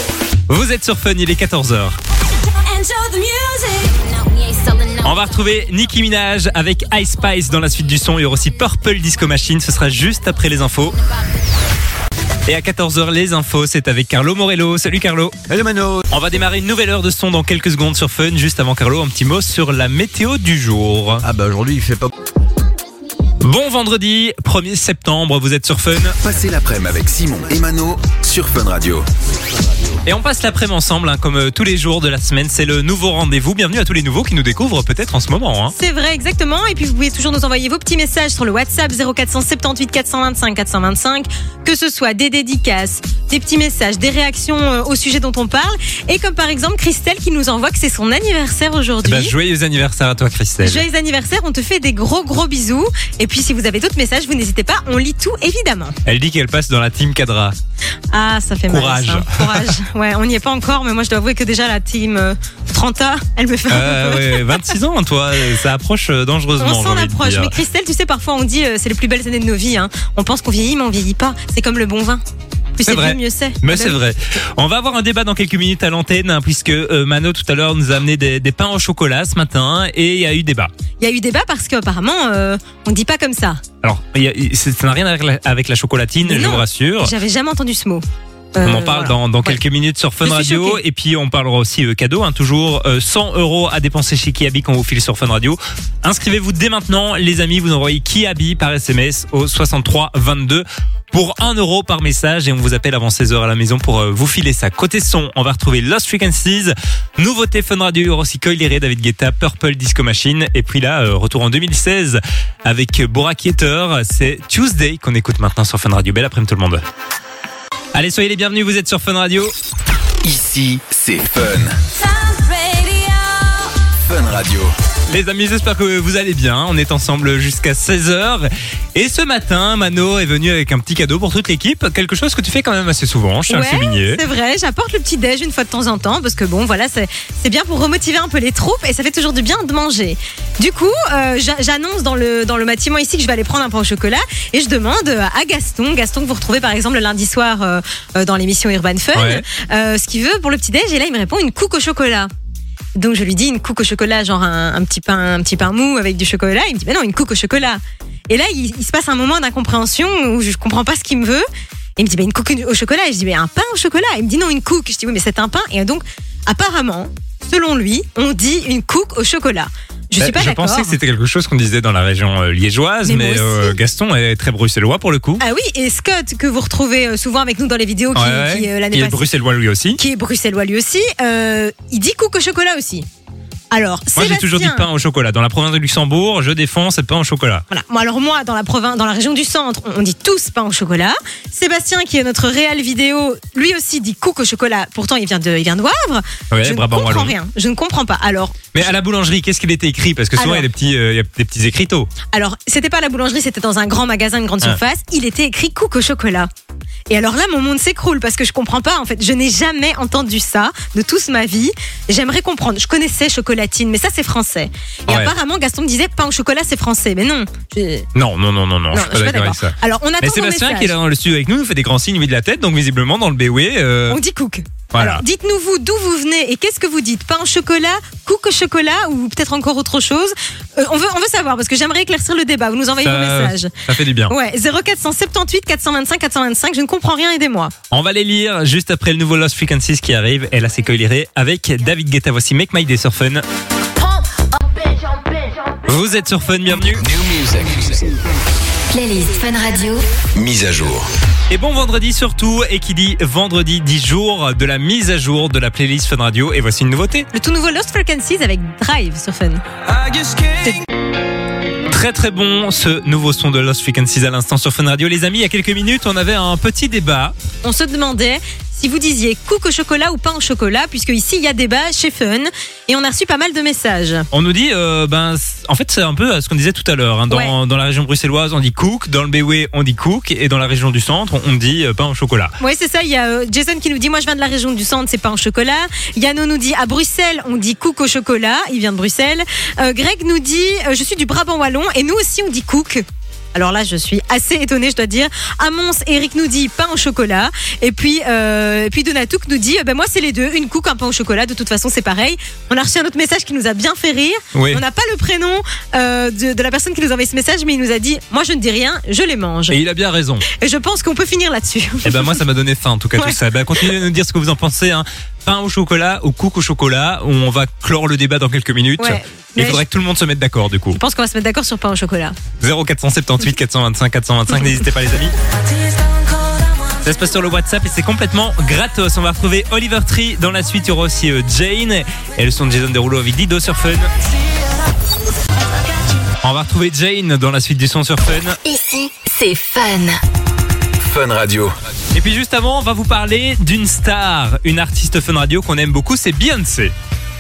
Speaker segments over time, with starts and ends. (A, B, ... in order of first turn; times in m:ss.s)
0:00.5-0:02.0 A
0:02.6-0:04.8 B
0:05.0-0:11.0 A
0:12.5-0:15.4 A
0:15.5-0:16.0 C
0:16.1-0:21.2 A
0:21.2-0:22.1 C
0:23.4-0:26.2 A
0:26.2-0:29.1 C
0:30.1-0:35.7 A
0:35.8-0:49.4 D
0:49.0-0:50.8 A
0:50.6-0:56.0 D
0:56.1-0:57.6 A
0:58.1-1:04.7 D
0:58.7-0:59.8 A
1:03.7-1:07.5 A
1:06.6-1:12.2 D
1:12.8-1:14.0 D
1:12.8-1:20.7 A
1:21.0-1:23.6 D
1:23.8-1:27.1 A
1:26.2-1:29.6 D
1:28.6-1:56.8 A
1:30.2-1:30.8 D
1:57.9-1:59.5 A
2:00.2-2:01.8 C
2:02.0-2:03.7 B
2:04.0-2:04.7 C
2:05.1-2:14.2 A
2:13.5-2:32.3 D
2:29.1-2:29.4 A
2:33.0-2:41.5 D
2:42.0-2:51.0 D
2:50.2-2:55.4 A
2:53.0-2:53.8 D
2:55.4-2:59.3 D
2:58.2-3:00.0 A
3:00.0-3:03.1 D
3:03.7-3:04.9 D
3:04.2-3:07.6 A
3:07.7-3:18.9 D
3:16.5-3:17.4 A
3:18.8-3:22.1 A
3:20.4-3:20.7 D
3:22.3-3:26.5 D
3:27.1-3:38.1 D
3:38.2-3:44.2 A
3:38.9-3:41.0 D
3:44.1-3:53.7 D
3:44.9-3:45.2 A
3:53.0-3:54.4 A
3:54.3-3:57.7 D
3:57.9-4:03.4 A
4:05.9-4:07.1 A
4:07.0-4:08.0 C
4:08.9-4:10.0 E
4:10.4-4:11.1 C
4:11.5-4:17.3 A
4:17.3-4:19.6 D
4:20.0-4:20.6 C
4:21.9-4:27.4 A
4:27.6-4:34.3 D
4:34.3-4:42.5 A
4:37.3-4:37.5 D
4:42.6-5:09.8 D
5:04.5-5:04.8 A
5:09.7-5:10.5 A
5:10.5-5:12.4 D
5:12.0-5:21.0 A
5:13.2-5:14.0 D
5:19.0-5:19.8 D
5:20.9-5:22.4 D
5:22.6-5:25.3 A
5:27.0-5:34.1 A
5:36.4-5:38.6 A
5:38.6-5:40.2 E
5:41.0-5:41.8 C
5:42.1-5:46.9 A